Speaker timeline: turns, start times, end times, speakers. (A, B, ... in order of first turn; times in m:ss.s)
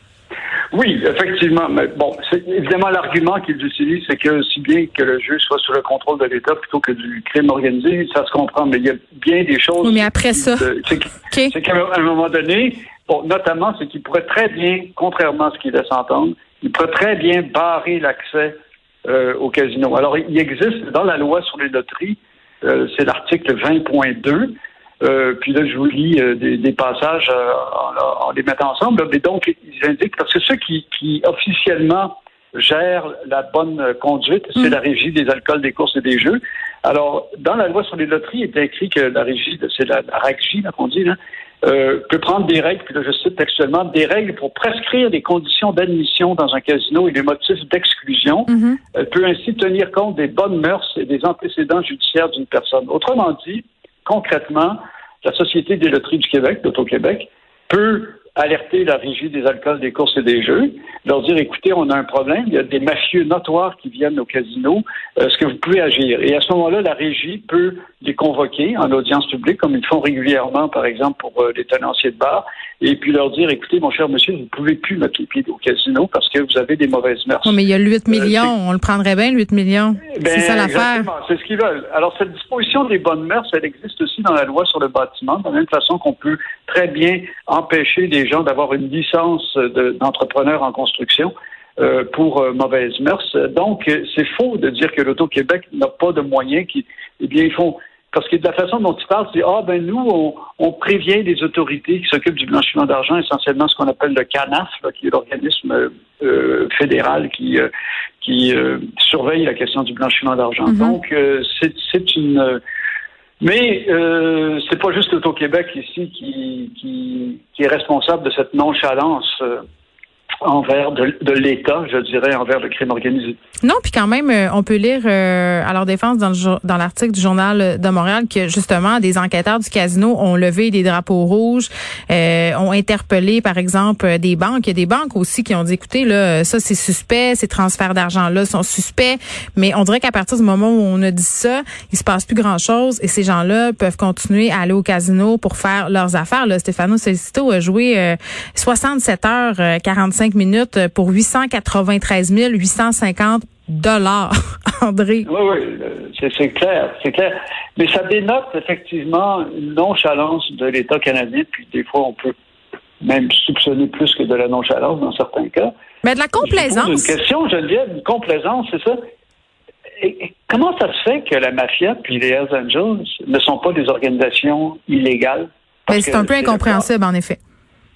0:00.7-1:17.6 A
0:09.8-0:10.7 B
0:11.2-0:11.5 B
0:48.5-0:48.8 B
1:17.4-1:21.1 B
1:18.1-1:18.5 A
1:20.1-1:47.7 A
1:48.2-1:52.6 A
1:50.7-1:51.0 B
1:53.4-1:59.6 A
2:00.4-2:03.4 A
2:03.6-2:35.3 B
2:35.3-2:42.3 A
2:43.0-2:45.7 A
2:46.0-2:47.1 B
2:46.4-2:49.0 A
2:50.0-2:56.9 A
2:55.9-2:57.4 B